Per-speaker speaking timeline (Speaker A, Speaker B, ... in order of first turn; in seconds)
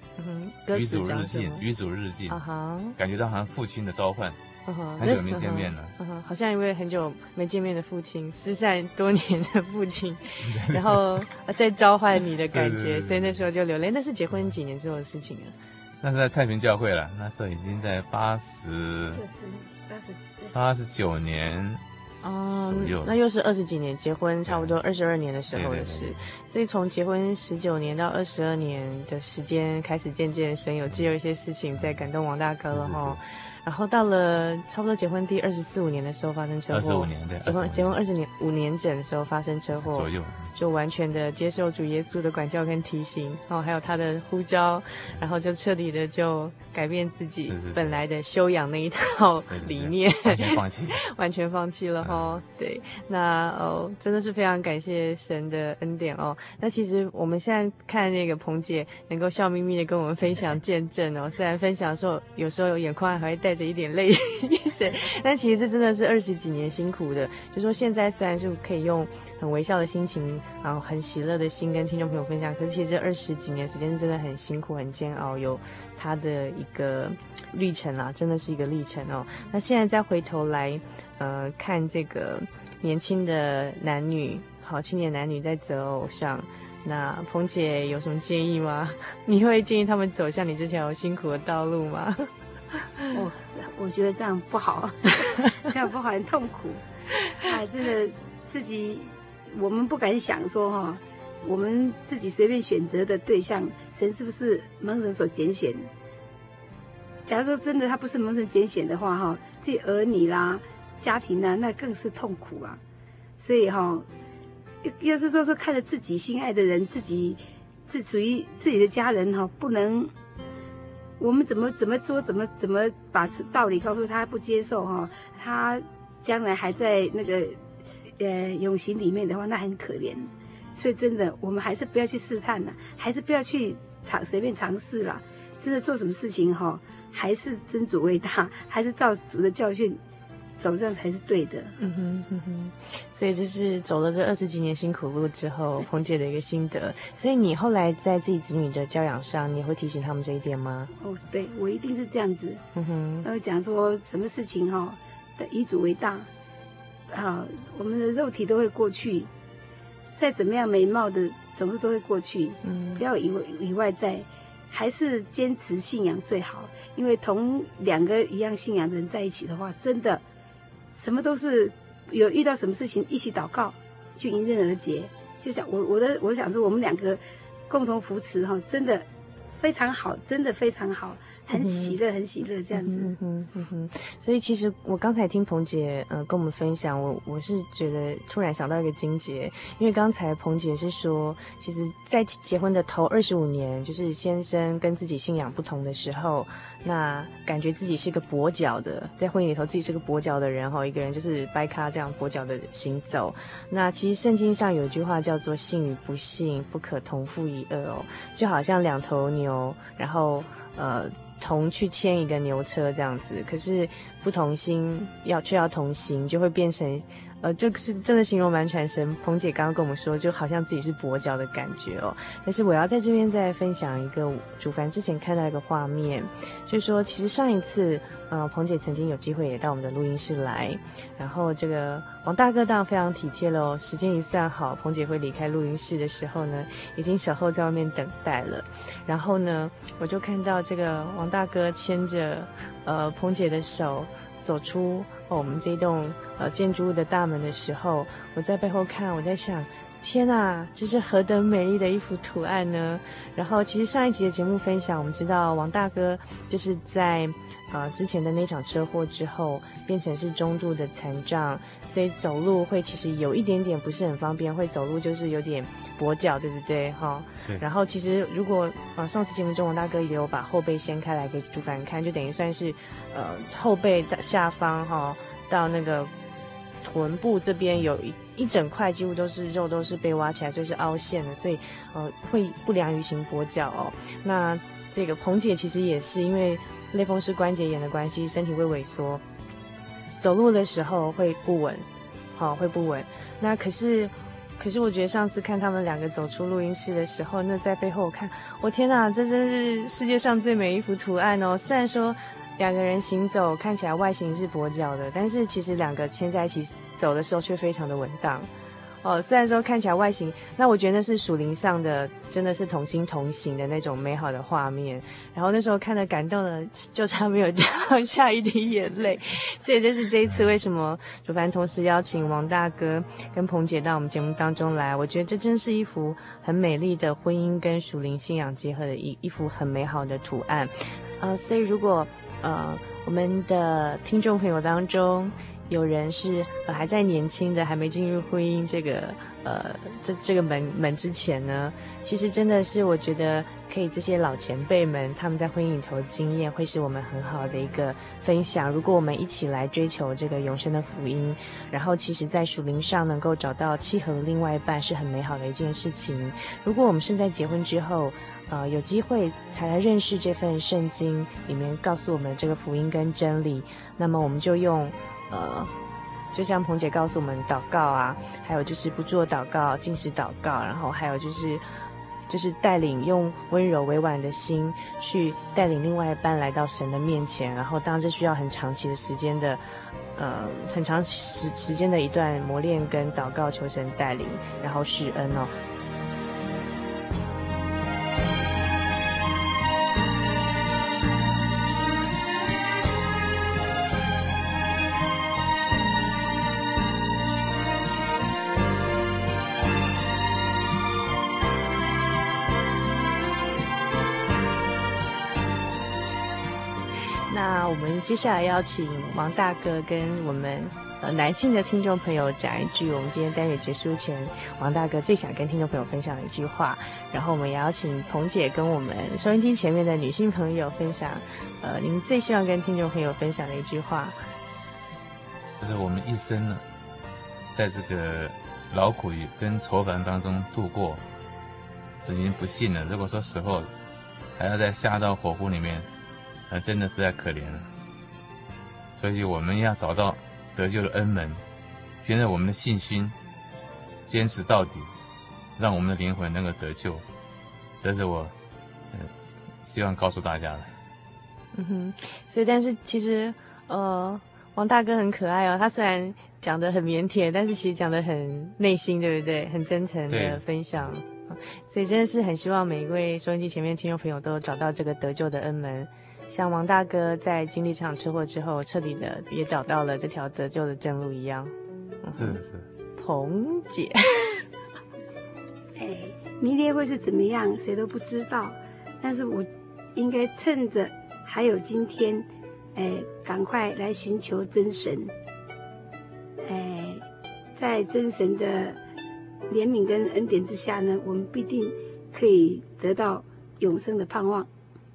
Speaker A: 0.2-1.6, 2.3-3.0, 4.7-15.5, 22.2-92.3, 141.8-150.9, 152.7-153.3, 162.6-163.0, 181.5-182.0, 182.7-276.1, 276.8-289.2, 290.2-291.8, 292.4-308.5, 309.0-365.7, 366.3-371.6, 372.3-379.6, 380.1-385.5, 407.3-424.2, 451.5-471.5, 472.0-472.4, 473.0-474.4
Speaker B: 0.7-2.4, 3.0-4.4, 5.0-5.9, 10.4-11.2, 12.5-13.4, 16.0-19.2, 20.5-21.8, 22.6-23.1, 24.5-24.7, 25.5-26.2, 32.6-33.2, 36.7-38.0, 39.9-40.5, 47.5-48.0, 49.5-51.0, 52.0-52.3, 425.6-426.6, 427.5-431.0, 432.0-433.7, 434.4-435.9, 436.5-437.7, 438.9-441.4, 442.0-443.1, 444.1-444.9, 445.6-447.0, 447.8-448.3, 449.6-450.7, 460.1-460.4, 472.1-472.7
Speaker C: 19.1-20.5, 93.1-96.8, 97.4-105.9, 107.2-112.8, 113.4-114.1, 114.8-120.1, 121.2-140.0, 140.6-141.7, 151.0-152.6, 153.2-156.3, 157.1-159.3, 160.2-170.2, 170.9-179.1, 179.6-183.1, 475.7-485.1, 486.4-487.0, 487.6-488.8, 489.5-494.5